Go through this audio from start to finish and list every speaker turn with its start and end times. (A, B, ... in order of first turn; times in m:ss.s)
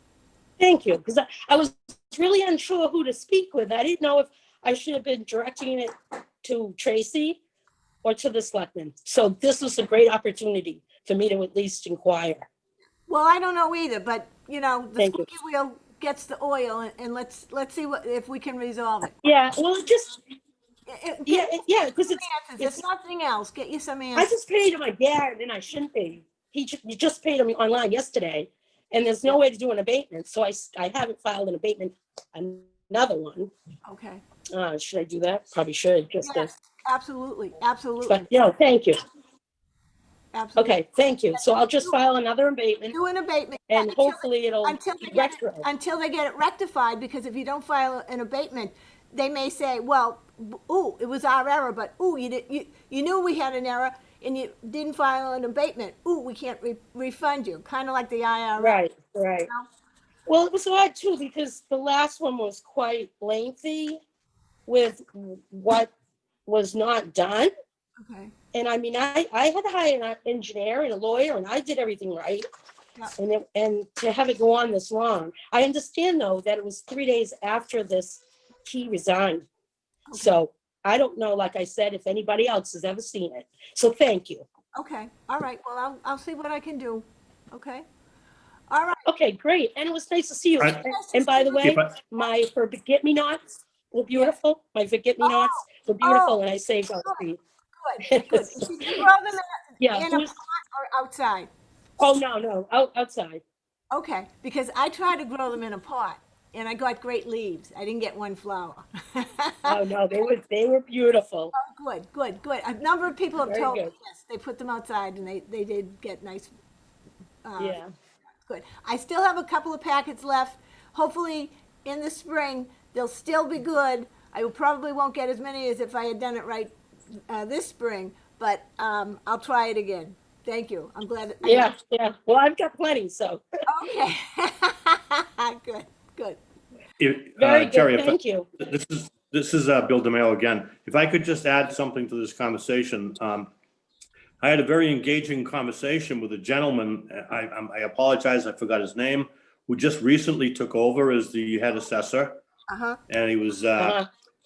0:00.6-0:07.4 A
0:08.0-0:12.5 A
0:13.1-0:19.1 B
0:15.0-0:15.3 A
0:19.2-0:20.2 A
0:20.9-0:21.6 B
0:21.2-0:22.8 A
0:22.2-0:24.3 B
0:24.1-0:33.5 A
0:33.8-0:34.2 B
0:34.5-0:36.5 A
0:36.2-0:38.3 B
0:38.0-0:39.0 A
0:40.3-0:40.8 B
0:40.6-0:43.0 A
0:41.3-0:42.0 B
0:42.9-0:58.8 B
0:43.7-0:45.7 A
0:58.6-0:59.5 A
1:00.3-1:04.0 A
1:04.7-1:05.9 A
1:06.4-1:07.5 A
1:08.0-1:08.3 B
1:08.5-1:12.4 A
1:13.1-1:19.4 A
1:20.1-1:20.4 B
1:20.1-1:24.4 A
1:24.8-1:27.8 B
1:28.7-1:29.1 B
1:29.0-1:37.4 A
1:30.8-1:31.7 B
1:31.6-1:31.9 C
1:35.2-1:36.4 B
1:37.8-1:41.5 B
1:38.0-1:39.0 A
1:39.8-1:40.3 A
1:42.0-1:43.4 A
1:43.9-1:49.8 B
1:49.6-1:51.5 A
1:51.5-1:56.5 B
1:53.4-1:53.9 A
1:57.4-1:57.8 B
1:57.6-1:57.9 A
1:58.4-2:06.7 B
2:07.3-2:11.7 B
2:11.4-2:13.4 A
2:13.7-2:16.4 B
2:17.0-2:23.5 C
2:17.4-2:18.4 A
2:24.4-2:32.4 C
2:32.7-2:33.0 B
2:33.1-2:34.0 C
2:33.8-2:34.1 A